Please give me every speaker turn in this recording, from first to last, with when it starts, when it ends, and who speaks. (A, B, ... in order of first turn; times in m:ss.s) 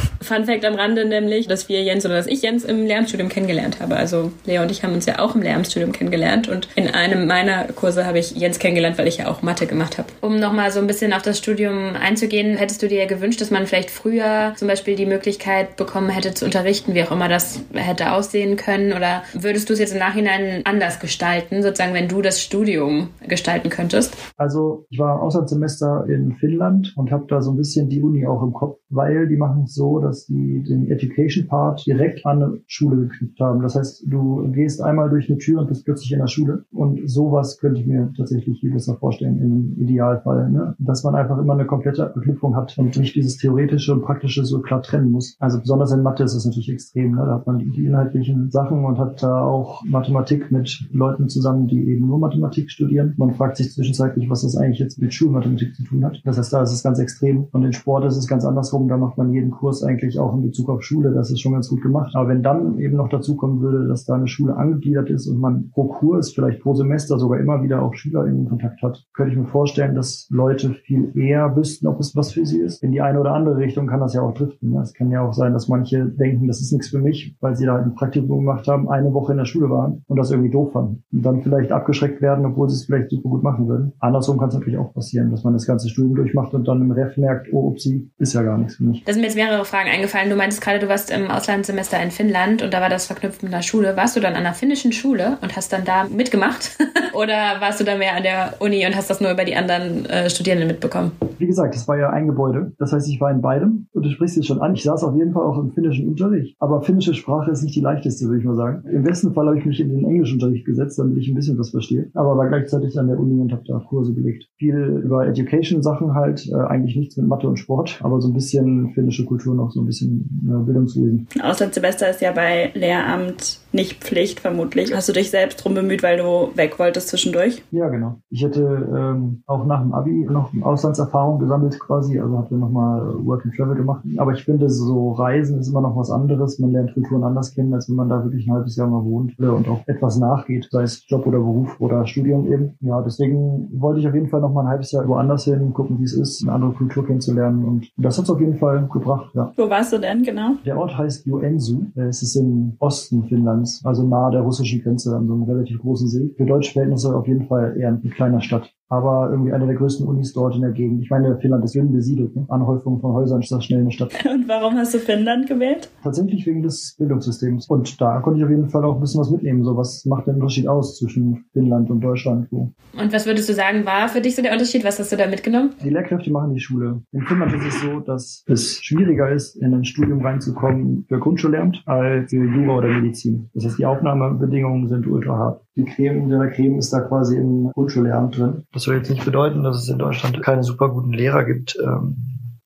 0:00.2-0:24.2 A
0:24.4-1:29.0 B
1:29.1-1:41.2 A
1:41.4-2:01.3 B
2:01.4-2:07.6 C
2:07.7-2:29.5 B
2:29.6-2:30.6 C
2:30.6-2:44.2 B
2:44.2-2:45.9 C
2:46.0-2:52.7 B
2:53.0-2:55.8 A
2:55.8-3:12.5 B